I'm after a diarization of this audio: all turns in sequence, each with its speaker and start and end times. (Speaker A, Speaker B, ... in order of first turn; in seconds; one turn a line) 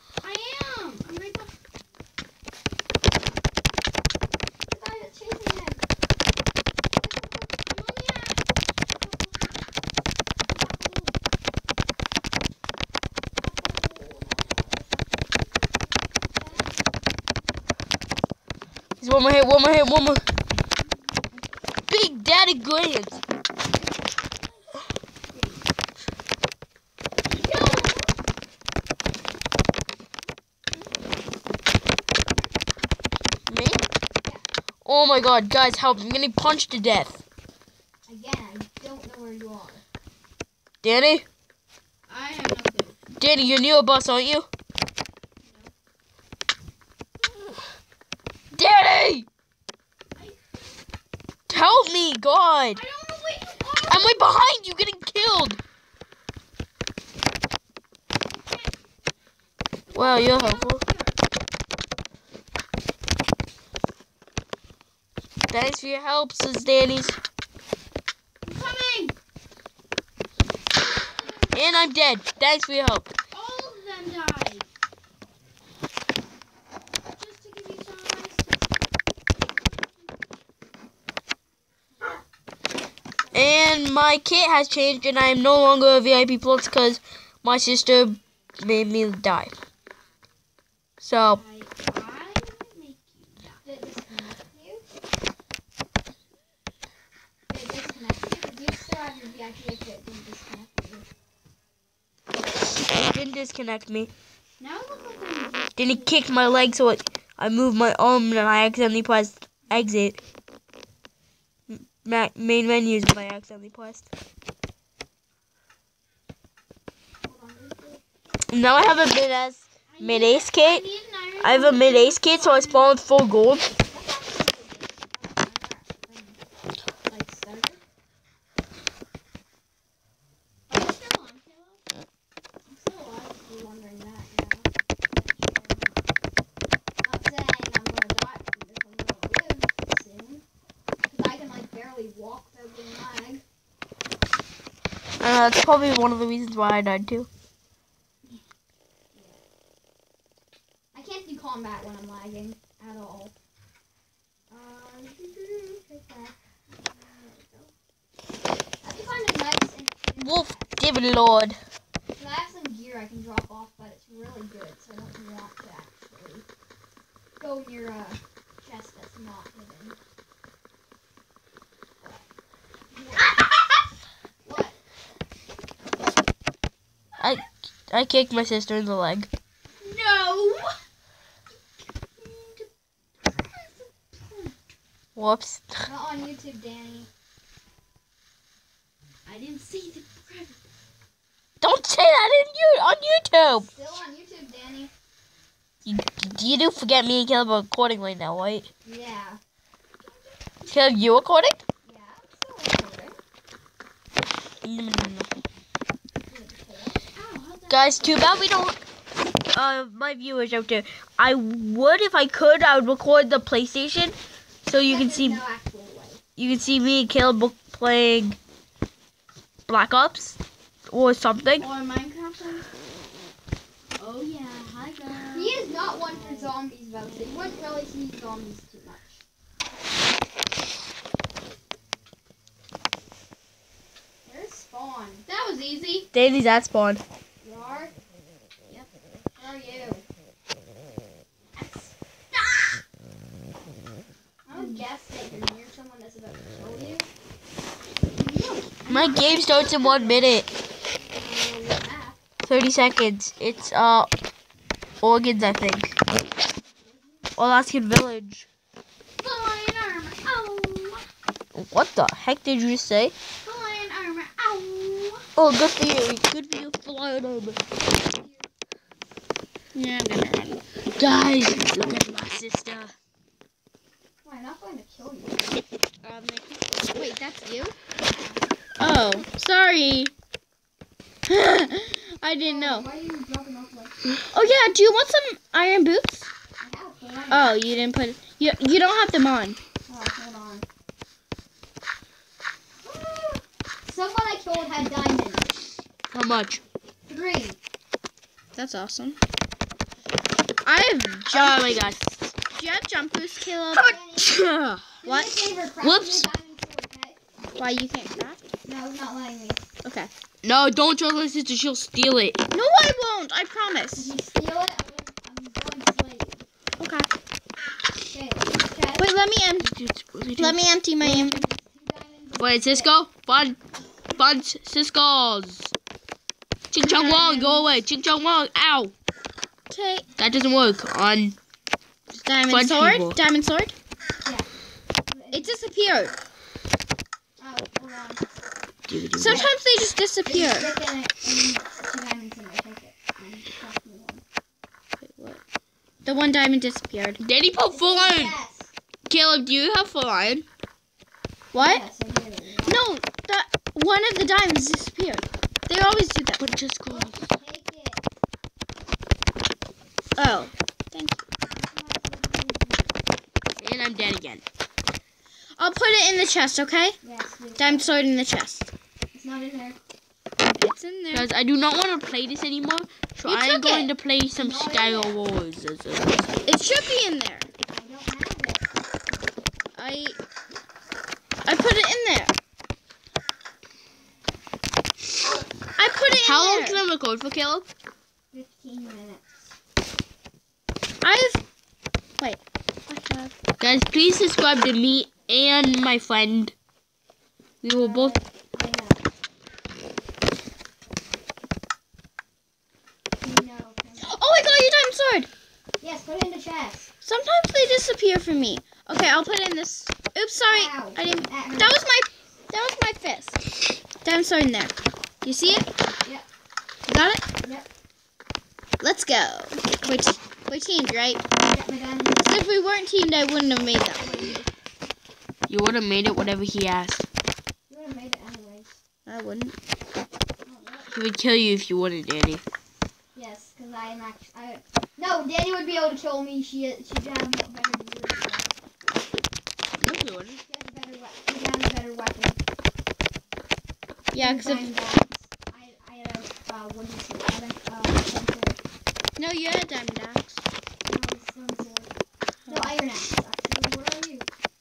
Speaker A: 0.2-1.5
Speaker B: 4.7-5.8
Speaker B: 7.0-7.6
Speaker A: 7.6-8.4
Speaker A: 9.0-9.6
Speaker A: 10.6-11.1
Speaker B: 13.4-15.2
Speaker B: 16.4-16.7
Speaker C: 19.0-20.2
Speaker C: 21.9-23.2
Speaker A: 25.3-25.6
Speaker A: 27.4-28.1
Speaker C: 33.5-33.8
Speaker C: 34.8-37.2
Speaker B: 38.1-39.8
Speaker C: 40.8-41.2
Speaker A: 42.1-43.0
Speaker C: 43.2-44.5
Speaker A: 45.4-45.7
Speaker C: 48.5-49.3
Speaker A: 50.1-50.7
Speaker C: 51.5-52.8
Speaker A: 52.8-54.3
Speaker C: 53.9-55.6
Speaker A: 58.3-58.7
Speaker A: 59.9-61.2
Speaker C: 59.9-60.8
Speaker C: 65.5-67.2
Speaker A: 68.4-69.1
Speaker A: 71.0-71.7
Speaker C: 71.5-73.1
Speaker A: 73.3-74.7
Speaker A: 77.0-78.8
Speaker C: 83.3-89.6
Speaker C: 91.0-91.4
Speaker A: 91.2-93.6
Speaker B: 93.6-94.8
Speaker B: 97.5-101.1
Speaker C: 103.1-104.1
Speaker A: 104.6-106.6
Speaker C: 105.8-110.2
Speaker C: 111.7-114.1
Speaker B: 117.2-118.0
Speaker C: 118.5-120.8
Speaker A: 119.9-123.0
Speaker C: 121.4-123.7
Speaker B: 123.5-126.4
Speaker B: 127.1-127.8
Speaker A: 130.7-131.8
Speaker B: 132.7-135.6
Speaker A: 135.3-135.9
Speaker B: 137.0-140.4
Speaker B: 141.1-143.4
Speaker C: 145.2-147.3
Speaker B: 149.1-149.4
Speaker B: 150.9-153.3
Speaker B: 154.5-156.3
Speaker A: 156.8-157.7
Speaker B: 158.8-160.8
Speaker C: 160.2-161.6
Speaker B: 162.2-166.4
Speaker B: 167.4-170.0
Speaker B: 172.0-172.2
Speaker B: 172.9-173.4
Speaker A: 173.2-173.8
Speaker B: 174.4-174.8
Speaker C: 177.2-179.3
Speaker A: 179.8-180.8
Speaker A: 182.2-182.7
Speaker A: 183.3-184.5
Speaker C: 185.2-185.8
Speaker B: 185.8-187.1
Speaker A: 189.2-190.7
Speaker C: 191.6-193.7
Speaker B: 193.6-194.9
Speaker C: 195.8-198.7
Speaker B: 198.8-199.4
Speaker C: 200.7-201.6
Speaker B: 201.8-203.2
Speaker C: 204.6-205.3
Speaker B: 206.2-207.0
Speaker A: 207.1-208.4
Speaker C: 207.7-208.8
Speaker C: 209.5-215.4
Speaker B: 214.8-216.2
Speaker C: 216.4-218.4
Speaker C: 219.7-220.4
Speaker C: 220.9-221.7
Speaker A: 221.6-222.7
Speaker A: 223.9-226.5
Speaker B: 225.3-229.2
Speaker B: 234.2-235.2
Speaker A: 235.2-236.1
Speaker C: 236.1-237.0
Speaker B: 237.4-237.9
Speaker B: 239.4-240.0
Speaker A: 241.6-242.8
Speaker B: 244.5-247.1
Speaker A: 244.5-244.8
Speaker A: 248.2-250.2
Speaker C: 248.9-250.5
Speaker B: 251.1-252.2
Speaker C: 252.4-254.1
Speaker C: 255.0-255.9
Speaker B: 256.7-257.4
Speaker C: 257.4-258.5
Speaker A: 259.2-261.1
Speaker C: 261.6-263.1
Speaker A: 263.4-265.3
Speaker C: 265.4-267.6
Speaker B: 268.0-268.5
Speaker A: 269.7-270.6
Speaker C: 271.0-272.9
Speaker B: 274.2-275.4
Speaker A: 276.0-277.8
Speaker B: 278.0-278.5
Speaker A: 278.8-280.1
Speaker A: 281.3-282.9
Speaker B: 282.4-284.1
Speaker A: 284.3-286.3
Speaker B: 286.6-287.6
Speaker A: 287.3-289.6
Speaker B: 289.9-290.6
Speaker B: 292.8-295.6
Speaker C: 296.1-296.6
Speaker B: 297.1-297.6
Speaker A: 298.5-299.2
Speaker A: 300.6-301.9
Speaker C: 301.3-302.2
Speaker A: 302.5-304.0
Speaker B: 303.8-304.4
Speaker C: 304.2-305.0
Speaker B: 305.0-307.2
Speaker A: 305.1-305.4
Speaker C: 305.8-306.3
Speaker A: 307.6-308.4
Speaker B: 308.6-309.6
Speaker A: 309.8-310.1
Speaker C: 310.4-312.4
Speaker A: 312.5-314.1
Speaker B: 313.9-316.4
Speaker A: 316.8-317.1
Speaker B: 318.1-319.1
Speaker A: 318.9-319.7
Speaker C: 319.6-320.6
Speaker A: 320.4-321.4
Speaker B: 321.0-322.9
Speaker C: 322.4-323.6
Speaker C: 324.1-325.7
Speaker C: 326.7-328.9
Speaker A: 326.8-327.7
Speaker A: 329.7-330.1
Speaker C: 330.2-331.4
Speaker A: 332.1-333.7
Speaker C: 332.5-333.2
Speaker B: 335.1-335.6
Speaker A: 335.3-336.1
Speaker B: 337.4-338.2
Speaker C: 338.9-339.4
Speaker A: 339.1-340.7
Speaker B: 339.2-339.6
Speaker B: 340.2-344.2
Speaker A: 345.1-345.4
Speaker A: 346.0-347.2
Speaker C: 347.2-348.3
Speaker B: 347.7-348.7
Speaker C: 349.1-350.4
Speaker A: 351.5-351.8
Speaker B: 351.6-352.8
Speaker A: 352.6-356.4
Speaker C: 356.4-357.2
Speaker B: 356.9-358.0
Speaker A: 360.2-361.2
Speaker B: 361.5-363.0
Speaker C: 363.6-364.4
Speaker A: 365.6-367.0
Speaker B: 367.0-367.9
Speaker A: 367.6-368.7
Speaker B: 369.1-369.8
Speaker A: 370.5-371.3
Speaker C: 371.1-376.3
Speaker A: 373.2-373.9
Speaker B: 374.4-375.2
Speaker A: 376.4-377.5
Speaker B: 377.7-378.7
Speaker A: 379.7-380.2
Speaker A: 381.4-382.3
Speaker A: 385.8-386.8
Speaker C: 386.2-387.7
Speaker B: 388.3-389.3
Speaker A: 391.0-391.4
Speaker A: 392.2-393.3
Speaker C: 393.6-396.6
Speaker C: 397.6-398.1
Speaker B: 397.7-399.1
Speaker B: 403.2-404.1
Speaker A: 404.0-405.3
Speaker B: 405.8-406.9
Speaker A: 407.0-413.4
Speaker B: 410.5-411.8
Speaker A: 414.0-415.7
Speaker A: 416.9-417.2
Speaker A: 418.8-421.2
Speaker B: 421.3-422.4
Speaker A: 422.2-424.4
Speaker C: 425.5-427.0
Speaker B: 427.7-428.8
Speaker A: 429.1-429.6
Speaker B: 430.4-430.9
Speaker C: 430.9-432.4
Speaker B: 433.1-438.5
Speaker C: 439.8-440.4
Speaker B: 440.4-442.4
Speaker A: 444.1-444.7
Speaker B: 444.2-448.6
Speaker A: 449.2-450.4
Speaker B: 450.9-451.9
Speaker A: 452.4-452.7
Speaker B: 452.5-454.3